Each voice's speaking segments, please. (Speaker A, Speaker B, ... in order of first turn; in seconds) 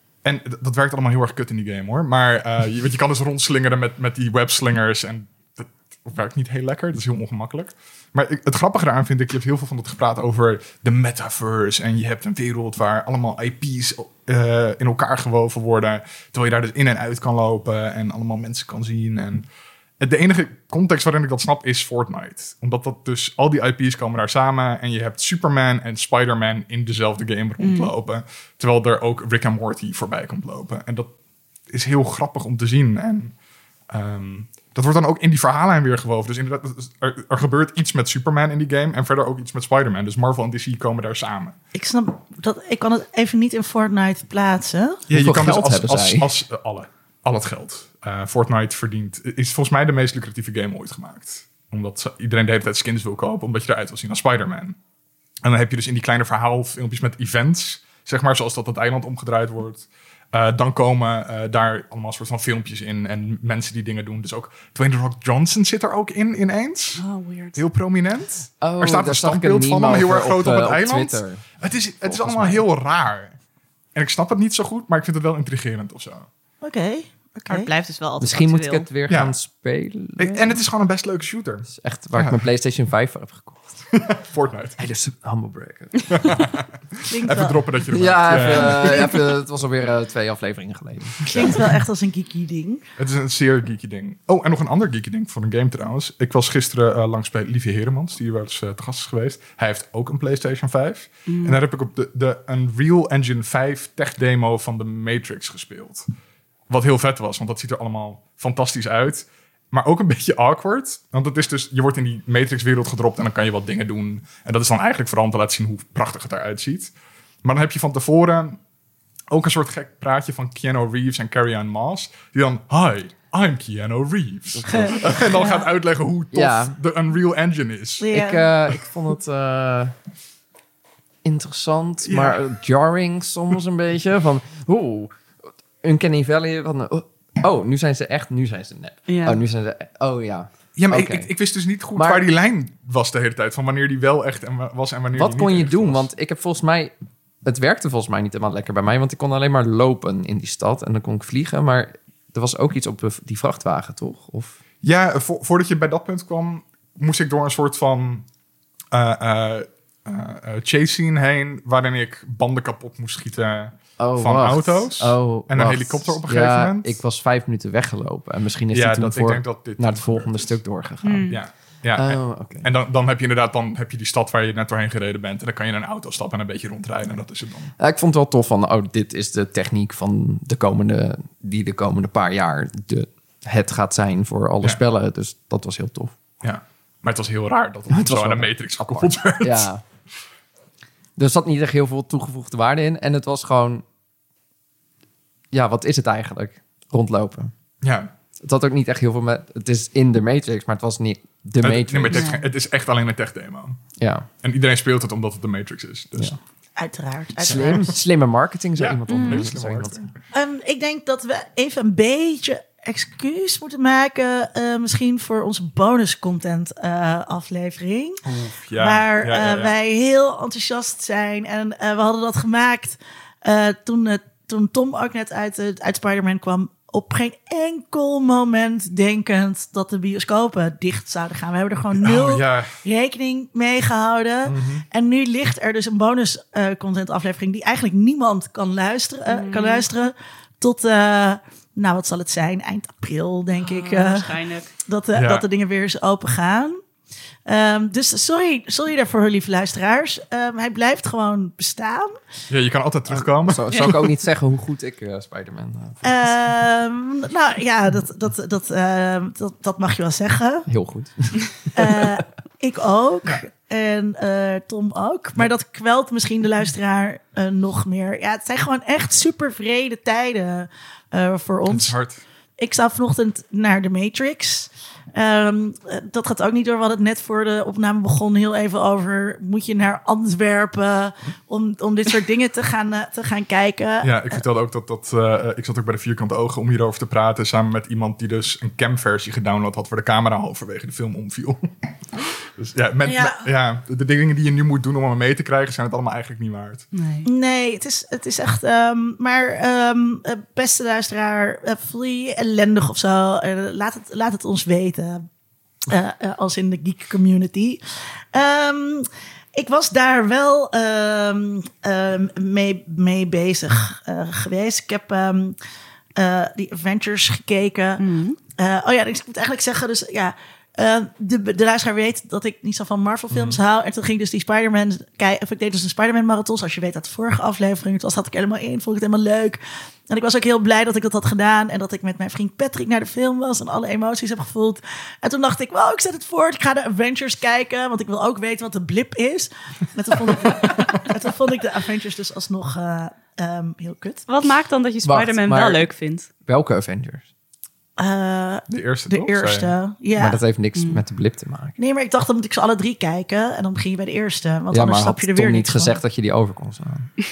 Speaker A: 0.2-19.5, 20.0-31.1, 31.7-33.3, 33.9-41.5, 45.1-54.8, 55.4-67.0, 67.5-73.3, 73.9-76.3, 79.1-79.3, 80.2-82.4, 83.9-84.8, 86.1-89.1, 91.3-91.7, 93.0-106.1, 106.7-116.9, 117.4-118.6, 119.3-128.1, 132.1-132.5, 140.8-146.1, 154.8-158.2, 158.9-167.0, 168.7-170.6, 171.3-177.7, 186.4-189.7, 197.8-198.1, 201.6-203.8, 204.4-206.4, 207.4-207.9, 208.8-210.1, 218.2-219.7, 231.9-232.8, 234.4-234.8, 245.1-245.4, 252.5-254.1, 271.7-272.2, 284.0-291.7, 292.6-296.8, 323.3-323.6, 348.7-349.7
Speaker B: 27.6-27.9, 67.0-67.6, 77.5-78.9, 101.3-101.6, 139.1-139.4, 171.0-171.4, 202.1-202.4, 209.1-209.5, 239.3-239.9, 243.6-244.7, 296.9-297.3, 318.0-318.4, 344.3-346.3, 350.8-351.0
Speaker C: 41.7-45.0, 76.6-77.7, 87.1-87.6, 91.3-92.8, 124.7-125.0, 128.0-128.5, 206.8-207.9, 210.3-218.2, 218.8-244.3, 244.8-246.8, 247.4-252.2, 256.0-260.7, 261.7-271.9, 272.6-284.1, 293.1-293.4, 297.2-305.2, 305.9-307.8, 308.3-315.6, 316.1-318.0, 318.5-344.2, 348.0-350.4, 351.8-356.0
Speaker D: 45.1-46.3, 68.6-71.4, 72.0-72.7, 78.2-80.6, 81.7-83.8, 84.8-86.3, 87.9-91.7, 124.5-125.5, 126.3-126.8, 128.1-129.9, 131.2-135.1, 135.8-141.3, 141.9-142.3, 145.1-146.9, 147.4-154.6, 164.0-171.4, 171.9-172.7, 177.8-186.1, 187.9-189.8, 191.2-193.8, 195.5-197.5, 198.4-202.3, 204.0-204.3, 207.4-210.1, 253.1-256.3, 260.7-262.2, 345.0-345.9, 346.4-347.2, 350.2-351.8, 354.7-357.1